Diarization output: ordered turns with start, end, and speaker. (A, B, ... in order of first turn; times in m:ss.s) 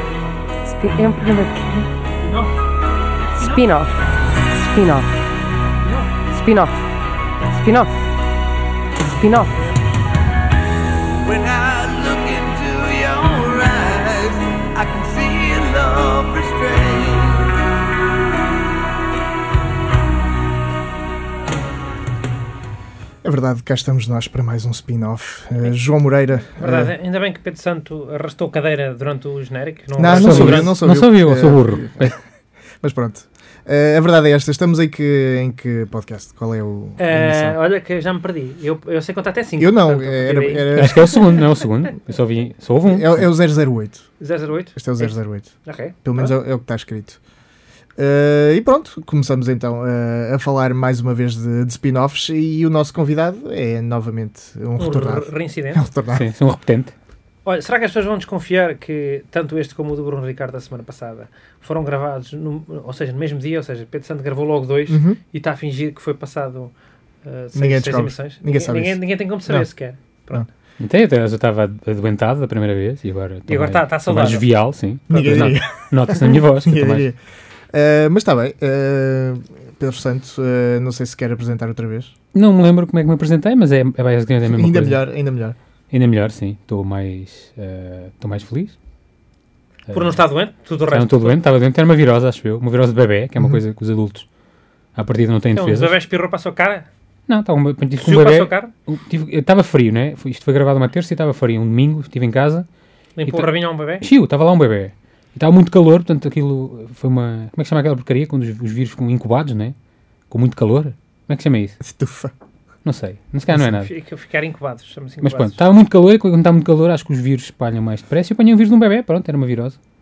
0:00.7-0:01.9 A
0:02.2-0:02.5 B
0:03.4-0:04.0 A
0:04.5-0:05.2 A
0:05.8-0:06.1 B
0:06.3-0:06.8 A
0:07.4-0:08.0 A
0:09.0-0:09.7 A
0:11.2-0:17.6 C
0:23.2-0:26.9 D
0:26.6-0:30.8 B
0:30.0-0:32.1 D
0:30.1-0:32.2 E
0:32.8-0:37.6 D
0:37.0-0:41.0 B
0:39.6-0:41.2 D
0:40.7-0:43.3 E
0:42.9-0:44.0 D
0:44.2-0:46.3 B
0:44.7-0:47.2 D
0:48.0-0:56.3 D
0:54.8-0:55.8 B
0:56.1-0:56.9 E
0:57.4-1:06.7 B
1:04.9-1:05.2 D
1:07.2-1:10.5 B
1:07.6-1:09.7 D
1:10.8-1:17.1 E
1:13.5-1:14.4 B
1:15.1-1:17.2 D
1:17.7-1:22.1 D
1:22.3-1:25.0 E
1:24.5-1:25.6 D
1:25.9-1:28.8 E
1:29.9-1:30.2 E
1:29.9-1:31.4 B
1:30.9-1:34.2 E
1:35.0-1:35.9 E
1:35.6-1:36.9 B
1:37.3-1:42.7 E
1:38.0-1:38.7 B
1:43.2-1:44.1 B
1:43.2-1:49.8 E
1:50.3-1:51.8 E
1:51.8-1:52.3 D
1:52.8-1:53.9 E
1:53.6-1:55.6 B
1:55.2-1:59.8 E